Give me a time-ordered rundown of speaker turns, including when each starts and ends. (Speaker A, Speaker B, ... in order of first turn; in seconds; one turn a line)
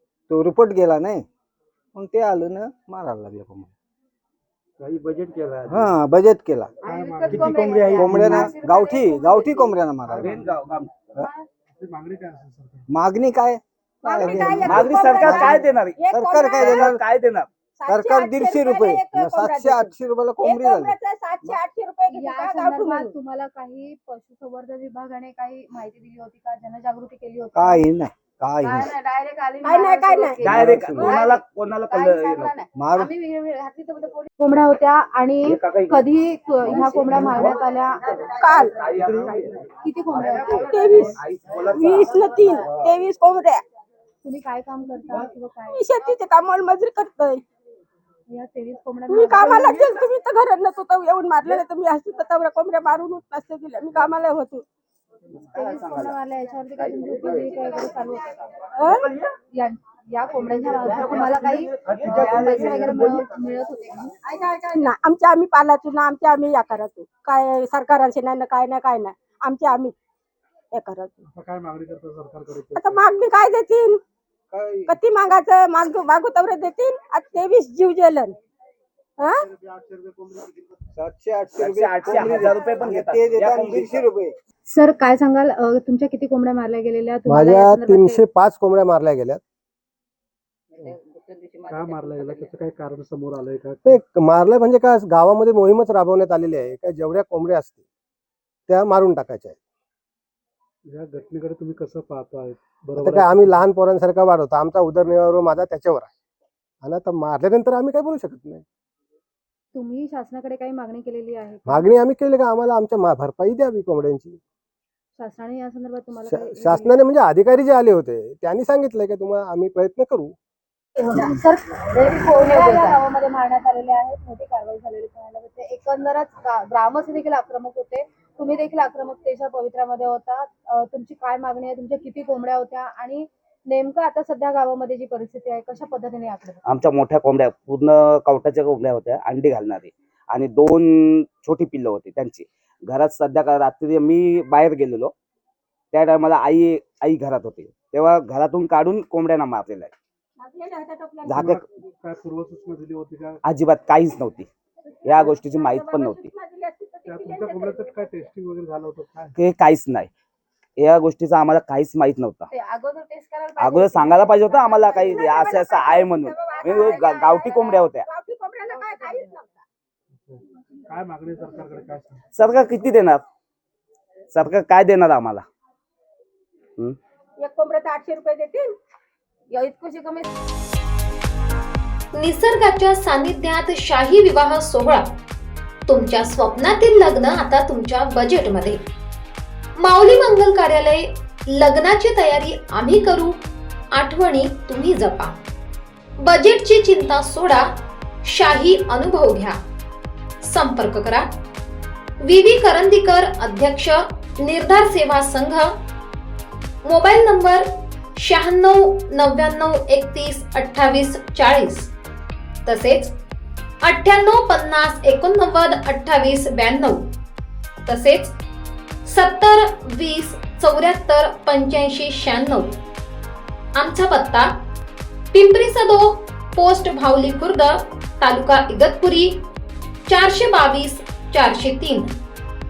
Speaker A: 0.3-1.3
Speaker A: 1.9-3.7
Speaker B: 4.8-5.9
Speaker A: 5.7-6.7
Speaker B: 6.8-8.7
Speaker C: 6.8-9.7
Speaker D: 7.3-8.3
Speaker A: 8.0-10.3
Speaker B: 10.1-10.8
Speaker D: 10.1-11.2
Speaker B: 11.8-12.9
Speaker A: 12.9-17.0
Speaker E: 14.0-17.0
Speaker B: 14.2-14.6
Speaker D: 14.5-16.0
Speaker D: 16.6-17.5
Speaker E: 17.8-23.1
Speaker A: 17.9-21.6
Speaker C: 22.1-27.9
Speaker A: 27.5-28.9
Speaker C: 28.8-31.3
Speaker E: 29.6-30.6
Speaker D: 30.4-32.6
Speaker A: 30.6-31.0
Speaker C: 32.2-38.0
Speaker A: 32.7-33.1
Speaker D: 35.4-36.1
Speaker D: 37.1-37.6
Speaker E: 38.3-38.8
Speaker D: 38.7-42.9
Speaker C: 39.8-41.0
Speaker E: 40.6-41.2
Speaker E: 41.7-43.6
Speaker C: 44.2-45.8
Speaker E: 45.7-47.4
Speaker C: 48.3-49.8
Speaker E: 49.1-54.6
Speaker D: 55.4-56.2
Speaker C: 55.5-58.4
Speaker D: 56.8-57.9
Speaker E: 58.8-59.1
Speaker D: 58.8-59.3
Speaker C: 59.5-64.1
Speaker D: 60.8-63.2
Speaker E: 64.2-69.9
Speaker E: 70.7-71.2
Speaker B: 71.3-73.1
Speaker E: 72.7-74.0
Speaker A: 74.5-74.9
Speaker E: 74.9-78.4
Speaker E: 79.2-79.5
Speaker B: 79.5-80.5
Speaker A: 81.0-84.4
Speaker D: 81.6-84.0
Speaker C: 84.7-88.2
Speaker F: 87.3-89.4
Speaker G: 91.1-92.5
Speaker B: 91.6-94.0
Speaker F: 93.9-97.8
Speaker F: 98.7-99.6
Speaker B: 100.9-103.7
Speaker F: 103.0-106.1
Speaker F: 106.8-108.6
Speaker C: 109.7-111.9
Speaker F: 111.7-114.4
Speaker C: 115.2-117.0
Speaker F: 116.2-120.3
Speaker C: 121.0-136.6
Speaker G: 122.6-122.9
Speaker D: 136.7-145.1
Speaker D: 145.9-149.9
Speaker E: 150.4-151.4
Speaker D: 151.3-151.6
Speaker B: 151.4-153.4
Speaker D: 153.4-154.5
Speaker D: 155.0-156.3
Speaker E: 155.1-158.3
Speaker B: 157.1-159.3
Speaker D: 159.4-160.1
Speaker D: 160.8-162.5
Speaker C: 162.5-165.2
Speaker D: 163.6-168.1
Speaker E: 165.0-169.6
Speaker B: 170.3-172.2
Speaker D: 172.3-173.2
Speaker D: 174.3-175.4
Speaker E: 177.4-178.7
Speaker E: 179.5-180.3
Speaker G: 182.1-185.2
Speaker G: 185.9-188.8
Speaker G: 189.8-193.4
Speaker G: 194.0-195.4
Speaker G: 196.3-197.7
Speaker G: 198.3-199.6
Speaker G: 200.5-201.2
Speaker G: 202.2-205.7
Speaker G: 207.1-207.6
Speaker G: 208.2-211.9
Speaker G: 212.7-213.1
Speaker G: 213.9-217.0
Speaker G: 217.9-218.3
Speaker G: 219.1-222.8
Speaker G: 223.8-224.5
Speaker G: 225.4-229.3
Speaker G: 230.1-232.1